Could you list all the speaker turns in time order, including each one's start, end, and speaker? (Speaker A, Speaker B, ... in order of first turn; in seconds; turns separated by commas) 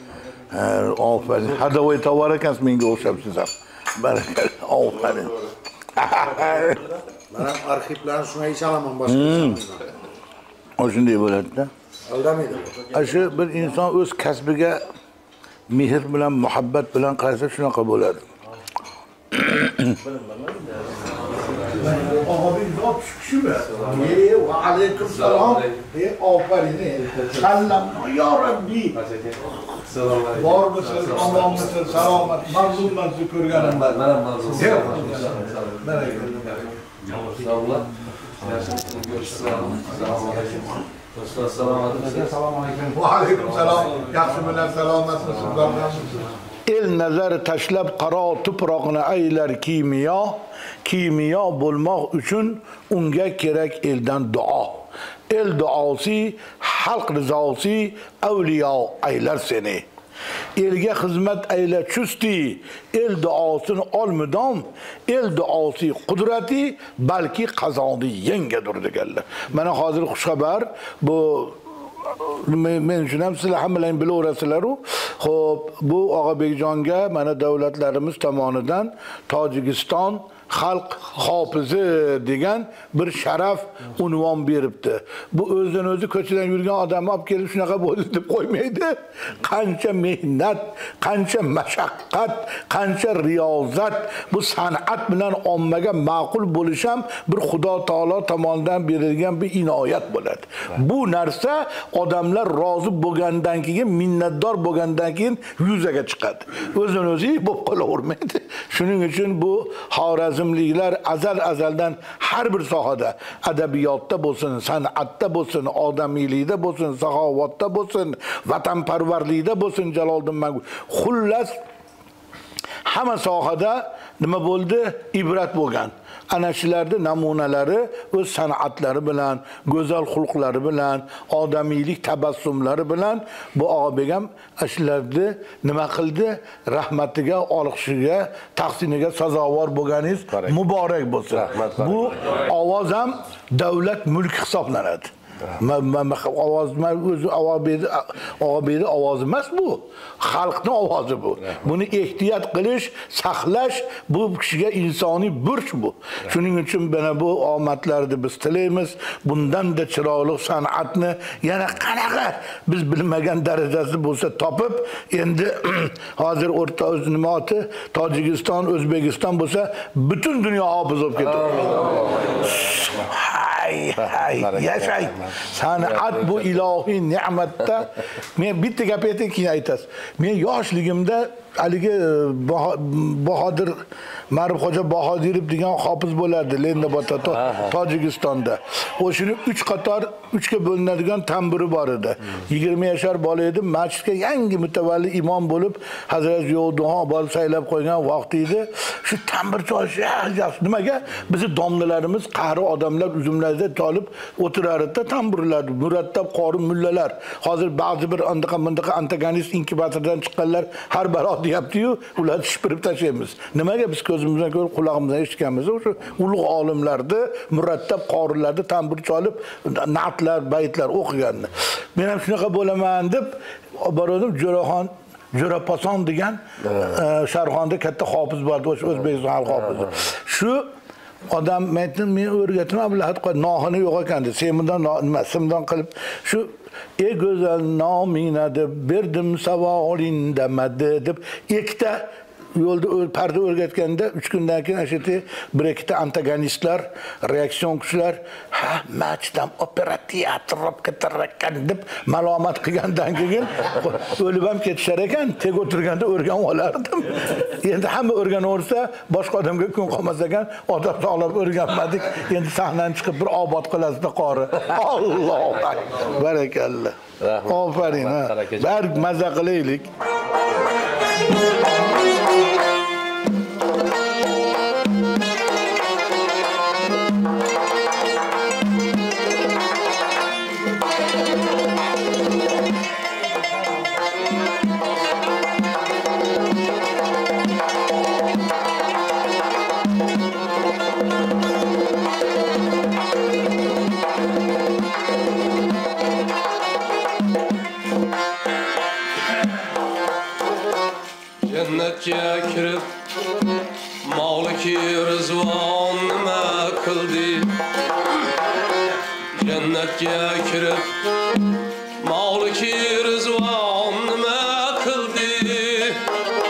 Speaker A: 0.5-5.4, Speaker A: 6.0-6.8, Speaker B: 6.2-9.8, Speaker A: 9.1-9.6, Speaker A: 10.8-11.7, Speaker B: 12.1-13.1, Speaker A: 12.9-14.8, Speaker A: 15.7-18.2, Speaker A: 19.3-19.9, Speaker B: 20.0-20.8, Speaker A: 21.7-29.0, Speaker C: 25.1-25.8, Speaker C: 29.1-32.2, Speaker A: 30.3-34.0, Speaker C: 33.6-36.3, Speaker B: 34.6-36.5, Speaker C: 37.1-37.9, Speaker C: 38.4-40.6, Speaker C: 41.1-42.4, Speaker B: 42.4-46.2, Speaker A: 43.3-44.8, Speaker A: 46.6-59.9, Speaker A: 60.6-121.6, Speaker A: 122.8-230.7, Speaker C: 141.5-142.4, Speaker C: 171.6-172.5, Speaker A: 231.3-269.9, Speaker C: 267.2-268.6, Speaker D: 301.4-302.9, Speaker D: 304.0-307.6, Speaker D: 309.3-311.0, Speaker D: 312.0-316.0